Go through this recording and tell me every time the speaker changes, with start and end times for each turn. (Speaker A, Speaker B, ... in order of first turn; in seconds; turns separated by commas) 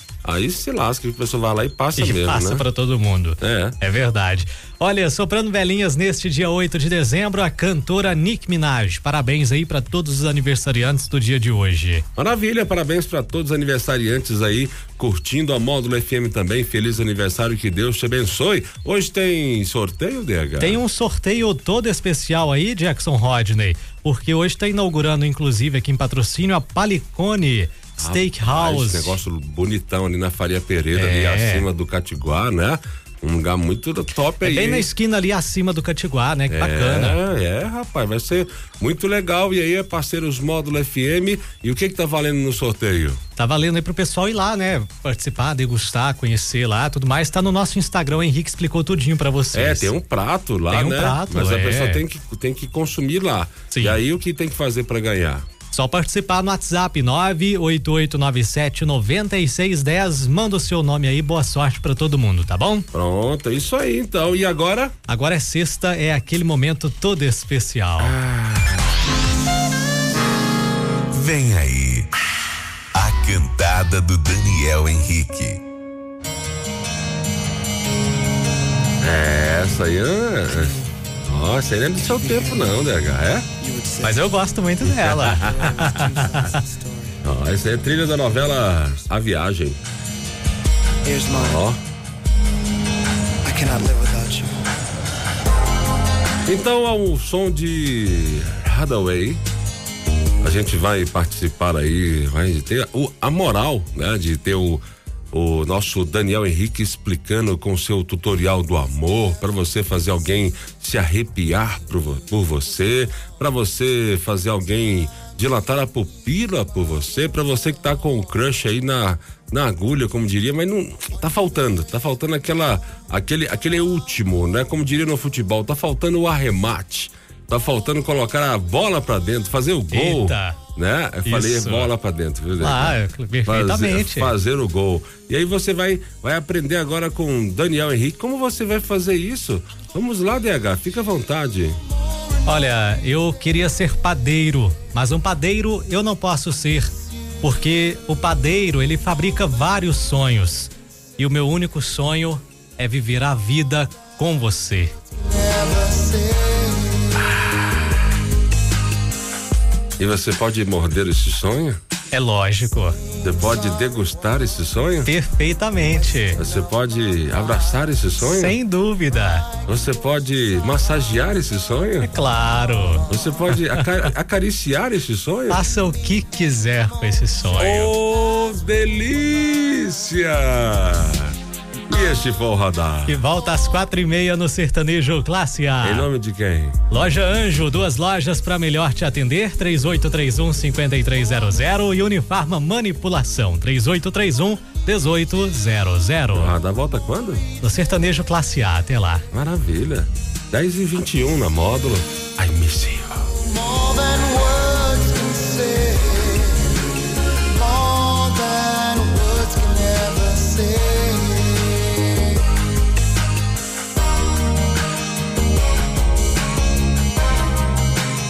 Speaker A: 0.2-2.6, Speaker B: 2.0-12.1, Speaker A: 3.4-3.8, Speaker A: 12.2-20.8, Speaker B: 20.6-29.2, Speaker A: 28.0-34.9, Speaker B: 30.9-31.7, Speaker B: 34.4-37.2, Speaker A: 36.5-43.2, Speaker B: 43.4-49.9, Speaker A: 49.5-55.5, Speaker B: 50.7-52.0, Speaker B: 53.7-54.0, Speaker B: 55.7-62.9, Speaker A: 62.9-64.9, Speaker B: 65.1-68.2, Speaker A: 68.0-69.0, Speaker C: 71.2-72.1, Speaker C: 73.0-75.6, Speaker A: 79.0-83.5, Speaker D: 82.1-82.7, Speaker D: 83.6-84.3, Speaker B: 84.0-86.6, Speaker A: 84.9-85.7, Speaker D: 85.3-87.2, Speaker A: 87.2-89.8, Speaker D: 91.0-91.6, Speaker A: 91.3-91.8, Speaker D: 93.5-94.7, Speaker A: 96.5-99.4, Speaker A: 100.4-141.8, Speaker B: 129.9-130.6, Speaker B: 131.3-131.9, Speaker B: 132.6-134.3, Speaker B: 142.4-146.9, Speaker B: 147.4-154.9, Speaker D: 155.3-157.1, Speaker A: 160.0-161.8, Speaker B: 162.1-163.0, Speaker A: 163.2-165.1, Speaker B: 165.1-166.4, Speaker A: 166.4-168.6, Speaker B: 168.2-169.5, Speaker A: 169.7-172.1, Speaker B: 172.0-173.8, Speaker A: 173.1-175.7, Speaker B: 175.5-177.9, Speaker A: 177.6-181.3, Speaker A: 181.9-183.2, Speaker B: 183.1-186.1, Speaker A: 185.8-186.8, Speaker B: 186.9-196.5, Speaker A: 196.3-197.4, Speaker B: 197.6-199.2, Speaker A: 199.3-203.3, Speaker D: 203.9-206.9, Speaker D: 207.8-212.1